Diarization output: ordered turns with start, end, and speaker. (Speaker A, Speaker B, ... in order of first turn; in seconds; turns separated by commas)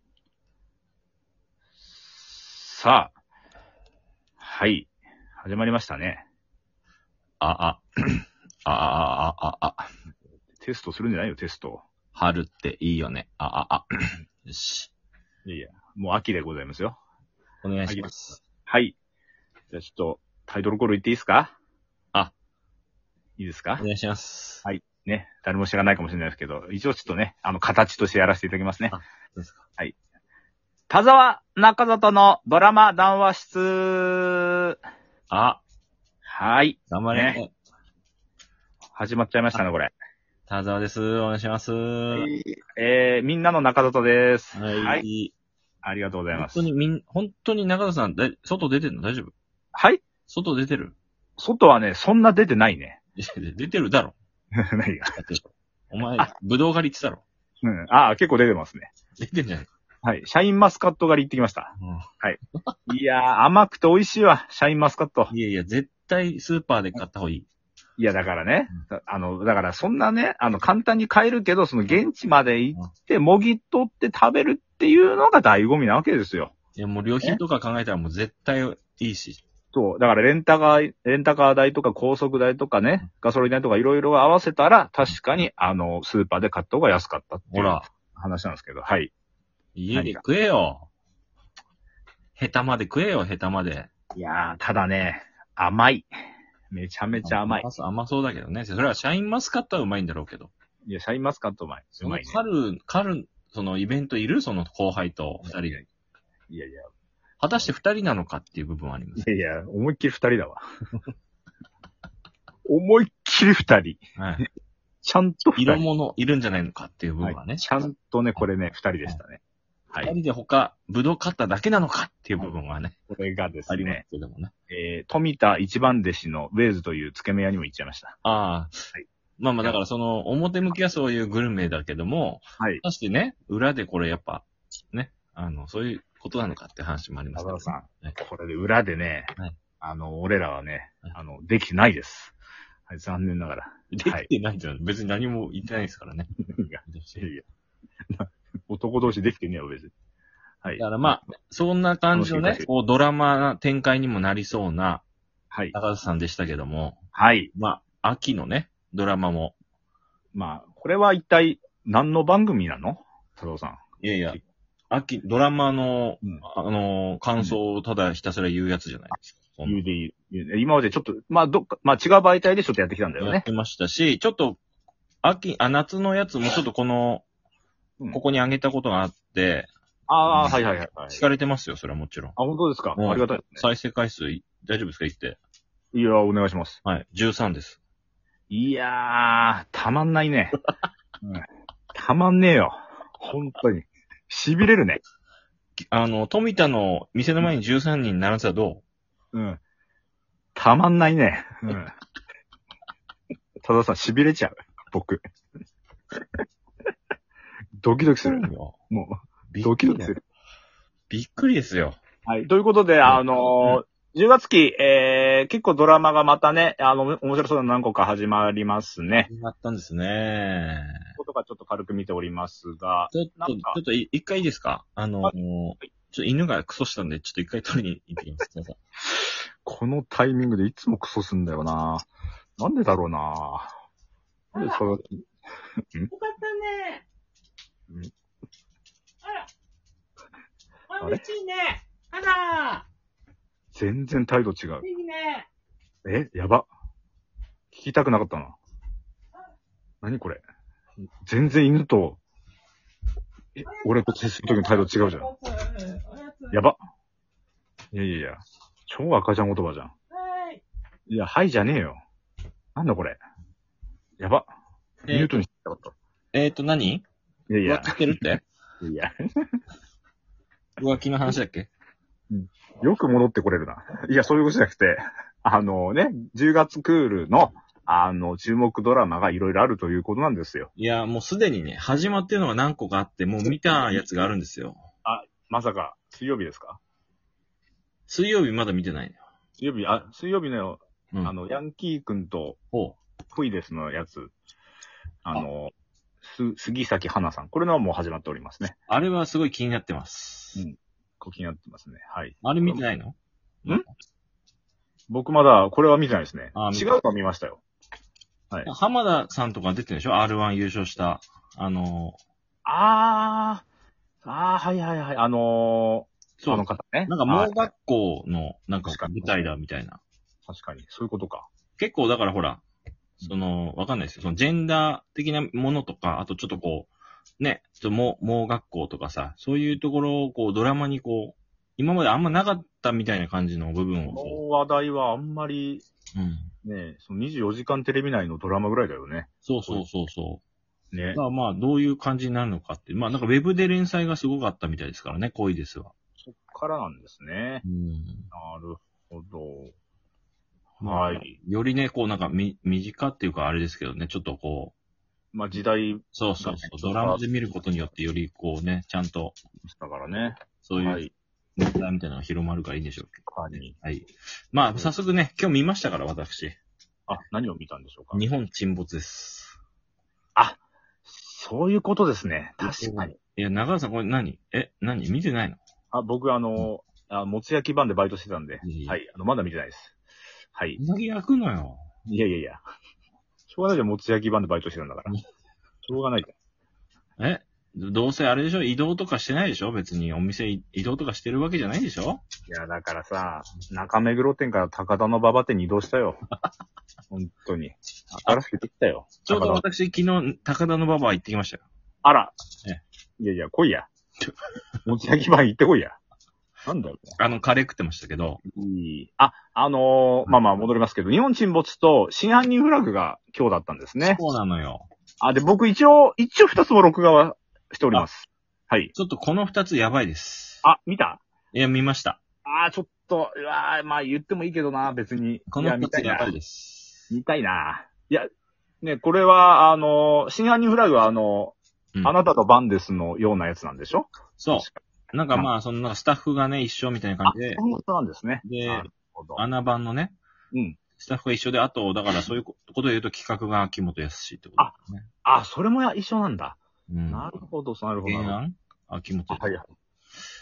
Speaker A: 1.8-3.1, Speaker A: 4.4-6.2, Speaker B: 7.4-9.9, Speaker A: 10.5-11.9, Speaker B: 12.1-13.9, Speaker B: 14.4-14.9, Speaker A: 15.4-17.0, Speaker B: 17.6-18.4, Speaker A: 17.9-18.1, Speaker A: 18.6-18.9, Speaker A: 19.7-21.5, Speaker A: 23.4-23.8, Speaker B: 23.8-24.6, Speaker A: 24.6-29.0, Speaker B: 28.9-29.6, Speaker A: 30.9-34.8, Speaker B: 35.3-35.6, Speaker A: 36.2-37.4, Speaker B: 36.9-37.5, Speaker A: 39.0-39.9, Speaker B: 40.5-42.3, Speaker A: 42.1-45.0, Speaker B: 44.5-45.3, Speaker A: 45.8-46.6, Speaker B: 46.3-49.3, Speaker A: 49.7-50.0, Speaker B: 50.3-51.0, Speaker A: 51.4-53.0, Speaker B: 53.2-54.1, Speaker A: 54.6-55.2, Speaker B: 55.1-57.2, Speaker A: 57.6-58.9, Speaker B: 59.2-59.7, Speaker A: 60.0-65.3, Speaker B: 61.8-62.0, Speaker B: 65.3-67.5, Speaker A: 68.0-76.5, Speaker B: 76.8-79.4, Speaker A: 79.7-89.1, Speaker B: 87.5-87.9, Speaker B: 89.7-90.9, Speaker A: 89.9-90.2, Speaker B: 92.3-93.9, Speaker A: 94.1-96.1, Speaker A: 96.7-97.7, Speaker B: 97.2-100.5, Speaker A: 100.8-102.4, Speaker B: 102.0-105.8, Speaker A: 106.5-106.9, Speaker B: 107.4-109.3, Speaker A: 109.2-110.6, Speaker A: 112.7-114.4, Speaker B: 114.2-114.4, Speaker A: 115.0-115.9, Speaker B: 115.6-117.7, Speaker A: 117.2-119.4, Speaker B: 120.0-123.0, Speaker A: 123.1-124.0, Speaker B: 123.7-124.5, Speaker A: 124.7-128.2, Speaker B: 128.2-128.8, Speaker B: 129.4-138.2, Speaker A: 137.3-142.3, Speaker A: 142.9-144.3, Speaker B: 143.9-146.3, Speaker A: 146.5-147.4, Speaker B: 146.8-147.3, Speaker A: 148.1-149.9, Speaker A: 150.6-151.1, Speaker B: 150.7-155.0, Speaker A: 152.1-152.7, Speaker B: 155.7-157.0, Speaker A: 157.1-157.5, Speaker B: 157.5-159.6, Speaker A: 160.3-164.4, Speaker B: 164.0-164.4, Speaker B: 164.9-169.8, Speaker A: 169.7-173.4, Speaker B: 173.2-174.6, Speaker B: 175.2-177.2, Speaker B: 178.1-179.7, Speaker A: 180.1-181.2, Speaker B: 180.3-182.3, Speaker A: 182.4-183.7, Speaker B: 183.0-185.4, Speaker A: 185.9-186.8, Speaker B: 186.8-187.8, Speaker A: 188.5-190.5, Speaker A: 191.2-195.0, Speaker B: 195.9-198.8, Speaker A: 199.3-199.6, Speaker A: 200.5-201.9, Speaker A: 203.6-205.2, Speaker A: 207.8-210.2, Speaker B: 208.2-208.8, Speaker B: 209.5-210.1, Speaker B: 211.1-212.0, Speaker A: 212.2-219.3, Speaker B: 213.0-213.8, Speaker B: 219.3-221.0, Speaker A: 221.2-223.8, Speaker B: 223.1-228.8, Speaker A: 229.6-232.1, Speaker A: 232.6-233.7, Speaker A: 234.5-235.1, Speaker C: 236.1-237.0, Speaker A: 241.0-241.2, Speaker C: 241.0-242.8, Speaker A: 243.7-244.9, Speaker C: 245.0-245.4, Speaker A: 246.0-246.7, Speaker A: 247.7-248.6, Speaker A: 250.0-250.4, Speaker A: 251.2-252.2, Speaker A: 253.6-255.3, Speaker C: 255.4-256.5, Speaker A: 256.5-256.8, Speaker A: 257.9-259.9, Speaker C: 260.3-260.6, Speaker A: 261.1-262.0, Speaker A: 262.8-263.2, Speaker A: 264.2-264.4, Speaker B: 265.0-265.3, Speaker A: 265.1-265.9, Speaker B: 266.3-267.0, Speaker A: 267.5-268.0, Speaker B: 267.6-268.4, Speaker A: 268.8-269.1, Speaker B: 270.8-271.7, Speaker A: 272.3-280.7, Speaker B: 280.8-284.8, Speaker A: 285.0-286.8, Speaker B: 288.1-289.2, Speaker A: 289.6-292.6, Speaker B: 292.7-293.0, Speaker A: 293.3-294.3, Speaker A: 295.2-298.8, Speaker B: 298.9-300.6, Speaker A: 300.6-302.8, Speaker B: 302.4-303.9, Speaker A: 305.1-307.6, Speaker B: 306.5-306.9, Speaker B: 308.6-312.2, Speaker A: 312.6-313.6, Speaker A: 314.2-317.7, Speaker B: 316.4-320.0, Speaker A: 318.9-319.5, Speaker A: 320.5-321.5, Speaker B: 321.8-322.6, Speaker B: 323.2-334.4, Speaker A: 334.1-335.8, Speaker B: 336.1-336.5, Speaker A: 336.6-339.8, Speaker B: 339.4-340.4, Speaker A: 340.9-341.2, Speaker B: 341.1-345.9, Speaker A: 346.2-347.6, Speaker B: 347.6-348.3, Speaker A: 348.3-349.7, Speaker A: 350.8-351.3, Speaker B: 350.8-354.7, Speaker A: 355.3-357.2, Speaker B: 356.1-359.4, Speaker A: 359.6-361.1, Speaker B: 360.6-363.2, Speaker A: 363.3-363.8, Speaker B: 363.7-366.6, Speaker A: 367.1-368.2, Speaker B: 368.1-369.6, Speaker A: 370.4-373.1, Speaker B: 372.6-375.6, Speaker A: 375.9-379.9, Speaker B: 378.6-379.0, Speaker A: 380.5-380.8, Speaker B: 380.8-381.8, Speaker A: 382.1-382.6, Speaker A: 383.5-385.1, Speaker A: 385.9-386.3, Speaker B: 387.2-392.2, Speaker A: 392.5-396.2, Speaker A: 397.1-399.6, Speaker B: 398.1-398.4, Speaker B: 399.2-401.6, Speaker A: 402.0-402.3, Speaker A: 403.2-403.9, Speaker A: 404.9-406.0, Speaker A: 406.6-407.2, Speaker B: 407.2-408.4, Speaker A: 408.5-414.2, Speaker B: 414.0-414.9, Speaker A: 415.2-418.9, Speaker B: 418.9-420.6, Speaker A: 420.6-421.2, Speaker B: 421.5-422.2, Speaker A: 422.4-426.3, Speaker B: 425.5-427.0, Speaker A: 427.1-428.3, Speaker A: 428.8-434.8, Speaker B: 434.4-437.6, Speaker A: 437.2-439.4, Speaker B: 438.4-440.2, Speaker A: 440.5-440.8, Speaker B: 441.0-445.1, Speaker A: 445.2-448.4, Speaker B: 446.9-447.3, Speaker B: 448.0-449.6, Speaker A: 449.3-449.7